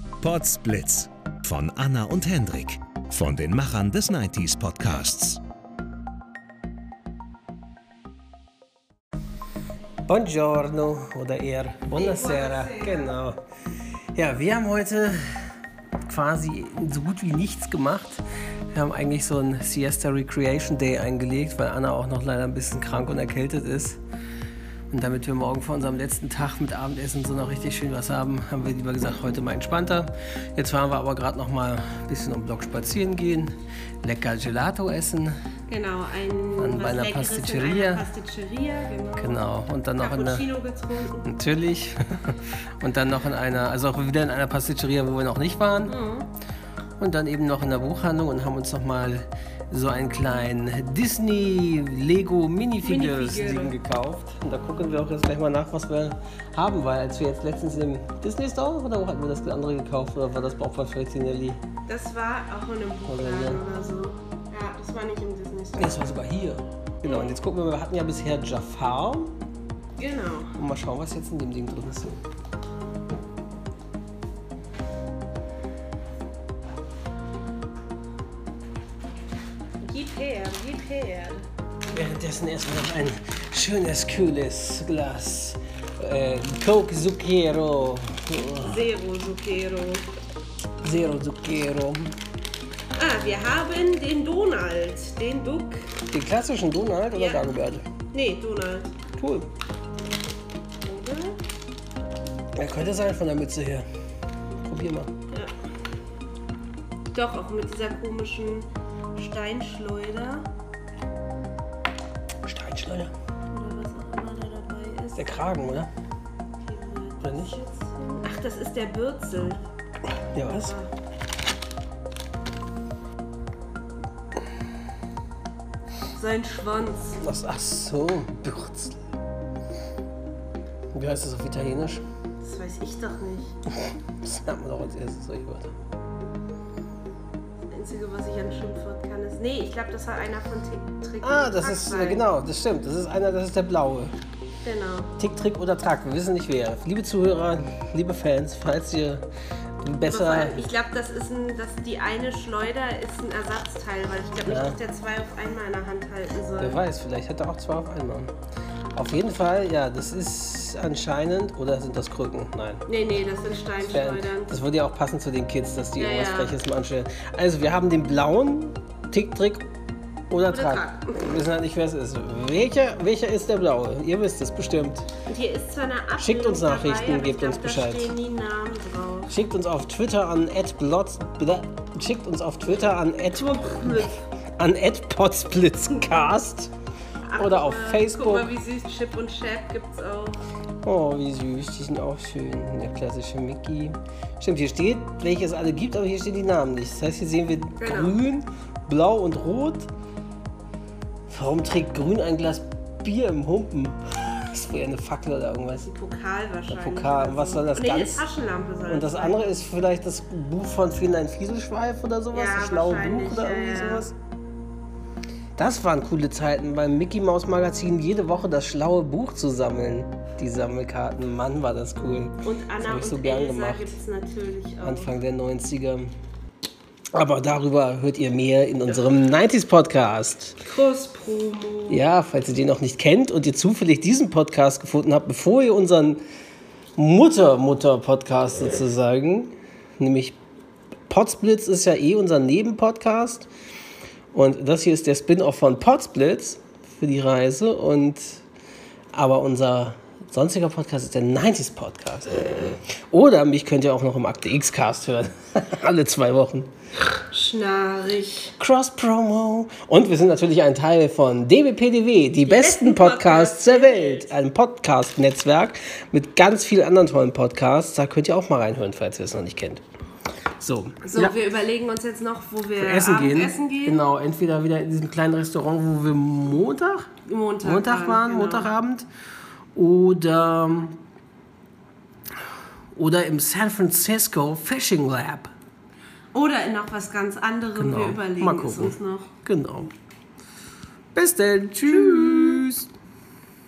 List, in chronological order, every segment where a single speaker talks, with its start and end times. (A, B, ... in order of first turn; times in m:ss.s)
0:00.2-0:05.4 A
0:10.0-0:13.4 B
0:11.9-0:13.1 C
0:14.1-0:15.2 B
0:16.1-0:24.0 B
0:24.9-0:33.5 B
0:34.0-0:35.3 B
0:35.7-0:41.2 C
0:36.6-0:38.0 B
0:39.2-0:40.5 B
0:41.2-0:45.9 B
0:45.8-0:46.3 C
0:47.0-1:01.6 B
0:52.8-0:53.8 C
1:01.9-1:06.1 C
1:03.0-1:03.6 B
1:05.8-1:09.3 B
1:07.0-1:07.4 C
1:10.0-1:10.6 C
1:10.6-1:12.1 B
1:19.8-1:21.4 C
1:21.9-1:28.8 B
1:28.6-1:30.0 C
1:30.8-1:32.1 B
1:32.9-1:35.9 C
1:36.1-1:37.8 B
1:37.1-1:37.5 C
1:38.1-1:38.9 C
1:39.1-1:39.5 B
1:40.8-1:41.4 C
1:42.6-1:43.8 B
1:44.5-1:45.1 B
1:47.1-1:50.5 C
1:52.4-1:53.1 B
1:53.5-1:55.3 C
1:55.1-1:55.9 B
1:56.6-1:59.6 C
1:57.2-1:57.6 B
2:00.3-2:00.8 B
2:00.4-2:00.9 C
2:06.1-2:07.2 C
2:07.2-2:09.0 B
2:10.9-2:12.0 B
2:12.4-2:13.6 C
2:14.2-2:15.7 B
2:17.6-2:22.2 C
2:21.2-2:24.1 B
2:24.6-2:25.1 C
2:25.2-2:29.2 B
2:29.8-2:30.6 B
2:30.0-2:36.8 C
2:34.4-2:34.8 B
2:36.6-2:38.3 B
2:38.9-2:42.8 B
2:42.9-2:44.5 C
2:43.8-2:49.6 B
2:46.0-2:46.6 C
2:50.3-2:55.1 B
2:50.4-2:51.2 C
2:55.2-2:59.3 C
2:56.2-2:58.1 B
2:59.3-3:06.7 B
3:03.5-3:04.1 C
3:07.2-3:10.4 C
3:07.4-3:08.5 B
3:10.8-3:19.9 B
3:17.8-3:18.2 C
3:21.3-3:25.9 B
3:25.7-3:29.5 C
3:26.7-3:28.3 B
3:28.8-3:34.1 B
3:32.3-3:34.1 C
3:35.6-3:44.0 B
3:42.4-3:45.2 C
3:44.8-3:46.1 B
3:47.1-3:50.6 B
3:50.6-3:52.0 C
3:51.9-3:56.2 B
3:57.0-4:00.4 B
4:01.1-4:03.5 B
4:04.3-4:08.4 B
4:09.1-4:16.7 B
4:17.2-4:18.5 C
4:18.6-4:29.8 B
4:22.4-4:24.3 C
4:30.6-4:31.4 B
4:31.0-4:34.0 C
4:32.8-4:37.1 B
4:37.2-4:38.7 C
4:37.6-4:39.1 B
4:39.7-4:41.0 B
4:42.9-4:45.5 B
4:46.3-4:49.3 C
4:47.7-4:49.9 B
4:51.1-4:52.8 B
4:51.9-4:52.6 C